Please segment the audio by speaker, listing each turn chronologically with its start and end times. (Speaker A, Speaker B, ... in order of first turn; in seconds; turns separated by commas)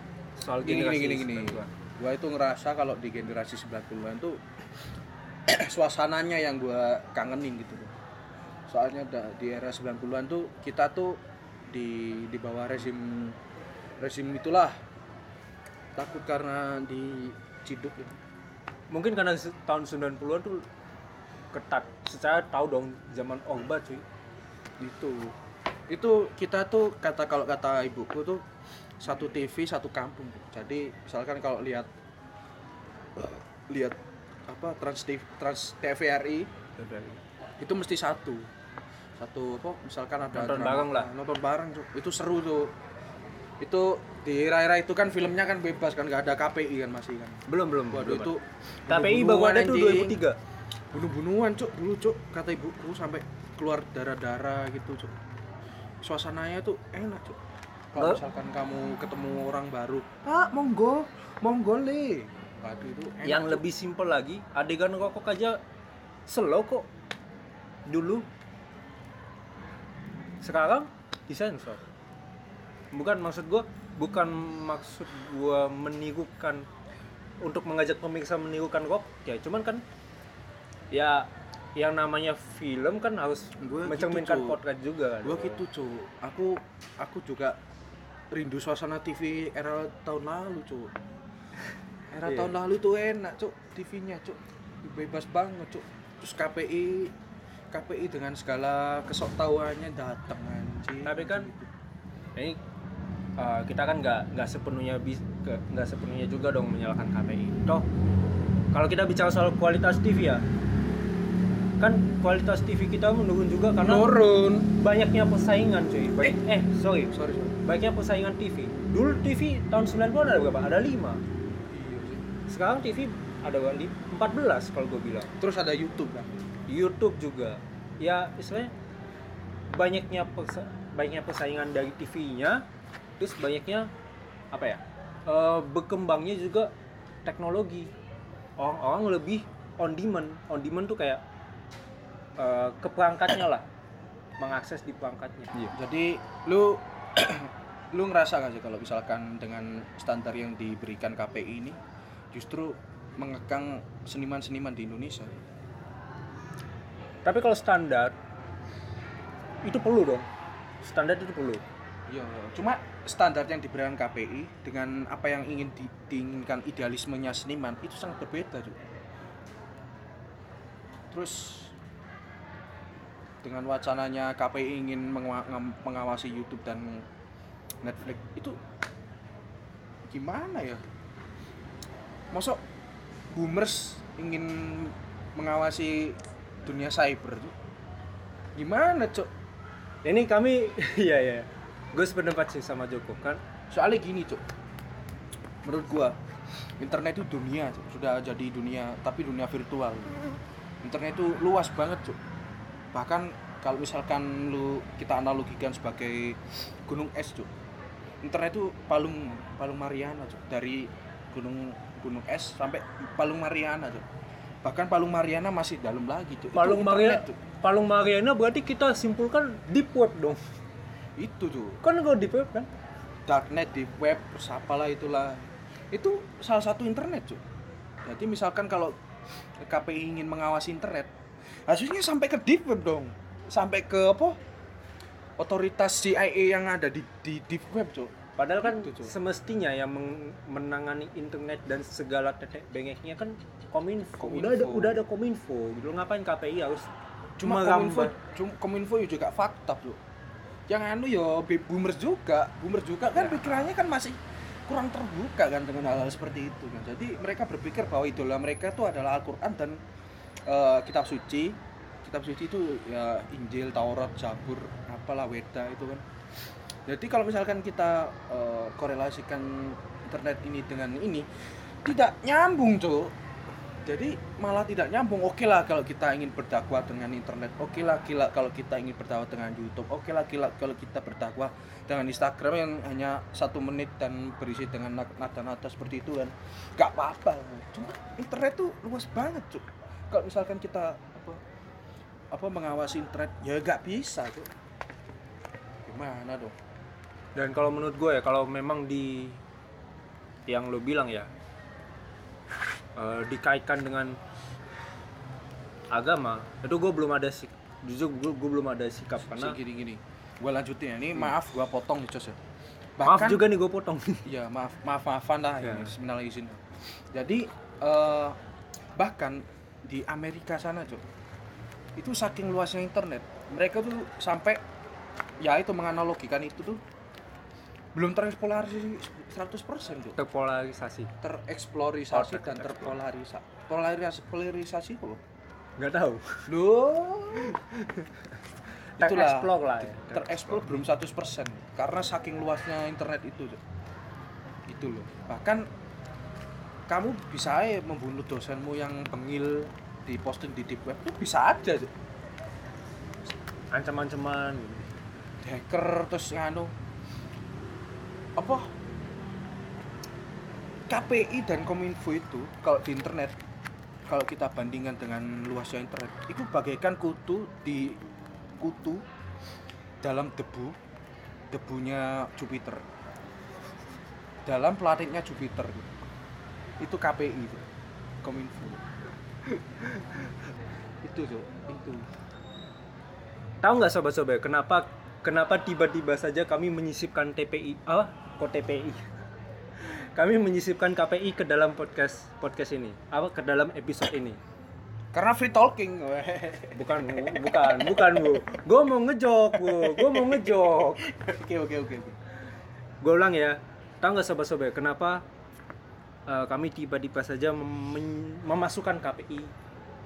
Speaker A: 0.4-1.7, Speaker B: 0.6-4.4, Speaker B: 5.5-7.9, Speaker B: 8.7-13.4, Speaker B: 14.0-14.8, Speaker B: 16.0-18.2, Speaker A: 18.9-20.7, Speaker A: 21.5-24.0, Speaker B: 24.8-25.4, Speaker B: 25.9-28.4, Speaker B: 29.0-31.9, Speaker B: 33.2-36.5, Speaker A: 36.8-37.2, Speaker B: 37.6-38.5, Speaker B: 39.2-42.8, Speaker A: 40.3-41.1, Speaker B: 43.6-50.2, Speaker A: 47.5-48.3, Speaker A: 48.9-50.4, Speaker B: 50.9-55.2, Speaker B: 56.0-57.4, Speaker B: 57.9-63.6, Speaker A: 63.2-65.6, Speaker A: 66.3-66.9, Speaker A: 67.9-68.2, Speaker A: 70.4-71.8, Speaker A: 72.9-76.7, Speaker A: 77.4-79.8, Speaker A: 80.9-85.7, Speaker B: 83.6-84.6, Speaker B: 85.2-87.6, Speaker B: 88.3-90.9, Speaker B: 92.1-97.1, Speaker A: 92.2-92.5, Speaker B: 97.7-101.7, Speaker A: 101.0-101.5, Speaker A: 103.4-107.9, Speaker A: 108.7-110.4, Speaker A: 111.8-114.1, Speaker B: 113.8-114.7, Speaker A: 114.7-121.2, Speaker B: 117.1-117.6, Speaker B: 121.7-122.3, Speaker A: 122.5-125.3, Speaker B: 125.4-126.4, Speaker A: 126.7-128.7, Speaker A: 129.7-132.6, Speaker A: 133.2-133.9, Speaker A: 134.5-136.7, Speaker A: 137.2-137.9, Speaker A: 138.6-141.2, Speaker A: 142.4-143.7, Speaker A: 144.4-145.7, Speaker B: 145.8-151.8, Speaker B: 152.3-155.3, Speaker A: 157.2-158.2, Speaker A: 159.6-160.3, Speaker A: 160.8-161.6, Speaker B: 162.1-168.8, Speaker B: 171.1-171.7, Speaker B: 173.4-177.1, Speaker B: 177.8-178.6, Speaker B: 180.1-180.8, Speaker B: 182.3-182.6, Speaker B: 183.3-187.6, Speaker B: 188.6-189.3, Speaker A: 190.1-193.4, Speaker B: 193.7-194.4, Speaker B: 195.6-196.2, Speaker B: 196.8-202.2, Speaker B: 202.9-207.5, Speaker B: 208.2-214.1, Speaker B: 214.6-217.4, Speaker A: 216.5-220.4, Speaker B: 221.2-221.8, Speaker A: 221.8-222.7, Speaker B: 223.3-227.4, Speaker B: 228.0-228.9, Speaker B: 229.6-231.1, Speaker B: 231.7-234.4, Speaker B: 235.4-239.1, Speaker A: 238.4-246.9, Speaker B: 244.2-245.0, Speaker B: 247.4-250.0, Speaker A: 247.4-248.2, Speaker B: 250.7-259.8, Speaker A: 253.2-253.6, Speaker B: 260.5-266.0, Speaker B: 266.9-271.3, Speaker B: 271.9-273.1, Speaker B: 273.8-291.4, Speaker B: 292.3-294.5, Speaker B: 295.9-296.6, Speaker A: 297.4-299.4, Speaker A: 300.5-301.3, Speaker A: 303.0-304.2, Speaker A: 305.9-309.6, Speaker B: 309.2-312.4, Speaker B: 313.0-313.5, Speaker A: 313.0-314.3, Speaker B: 314.3-318.4, Speaker A: 315.6-315.9, Speaker B: 319.0-321.1, Speaker B: 322.0-324.6, Speaker B: 325.4-326.8, Speaker B: 327.9-330.2, Speaker A: 330.2-331.1, Speaker B: 331.2-335.2, Speaker A: 332.1-333.0, Speaker A: 335.8-336.5, Speaker B: 336.5-337.6, Speaker A: 337.4-338.1, Speaker A: 339.0-340.8, Speaker B: 339.0-343.6, Speaker B: 344.7-345.7, Speaker B: 346.9-351.9, Speaker A: 353.7-354.9, Speaker B: 355.4-356.8, Speaker B: 358.4-358.7, Speaker B: 360.9-363.4, Speaker B: 364.1-368.0, Speaker B: 368.6-369.0, Speaker B: 370.0-370.8, Speaker B: 371.5-372.8, Speaker B: 374.4-376.0, Speaker B: 376.8-377.6, Speaker B: 378.2-378.8, Speaker B: 381.0-382.1, Speaker A: 383.6-389.1, Speaker A: 389.8-394.4, Speaker B: 395.1-398.4, Speaker A: 396.8-401.1, Speaker B: 399.6-402.2, Speaker A: 403.0-405.2, Speaker A: 406.3-409.5